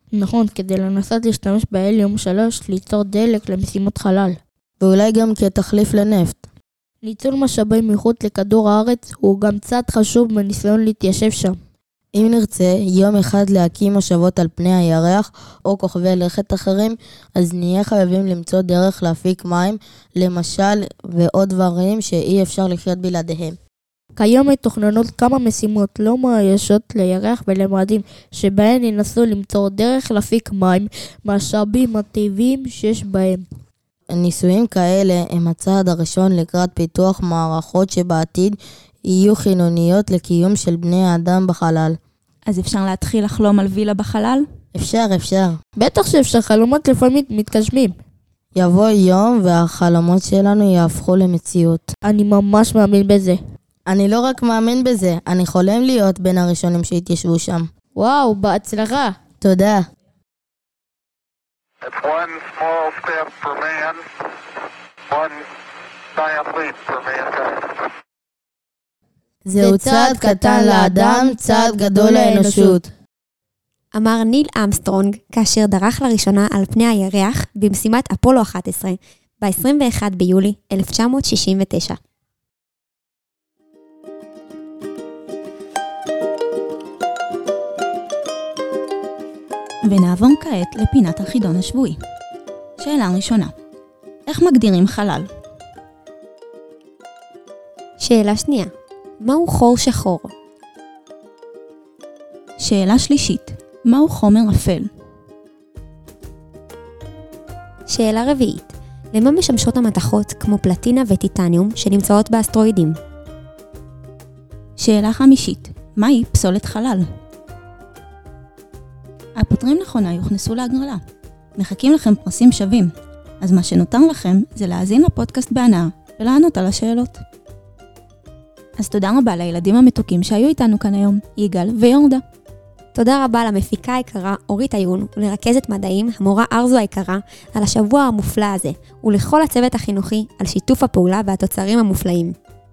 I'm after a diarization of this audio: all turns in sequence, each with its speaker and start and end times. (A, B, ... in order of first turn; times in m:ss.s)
0:00.1-0:04.4 A
0:04.8-0:06.5 B
0:07.0-0:11.6 A
0:12.1-0:23.6 B
0:24.2-0:33.4 A
0:34.1-0:42.0 B
0:42.5-0:44.4 C
0:44.7-0:45.6 B
0:45.8-0:48.0 A
0:48.6-0:51.9 B
0:52.0-0:53.4 A
0:53.9-0:57.7 B
0:58.0-0:59.2 A
0:59.4-0:59.9 B
1:01.8-1:04.1 D
1:05.1-1:05.4 D
1:06.1-1:07.9 D
1:09.4-1:12.8 B
1:09.6-1:12.9 A
1:13.9-1:22.0 E
1:29.9-1:32.0 C
1:32.8-1:33.5 C
1:34.3-1:35.3 C
1:38.0-1:40.3 E
1:42.6-1:44.9 C
1:47.9-1:53.0 E
1:54.8-1:57.1 C
1:59.4-2:01.0 C
2:01.6-2:07.2 C
2:08.8-2:12.2 C
2:13.0-2:22.4 E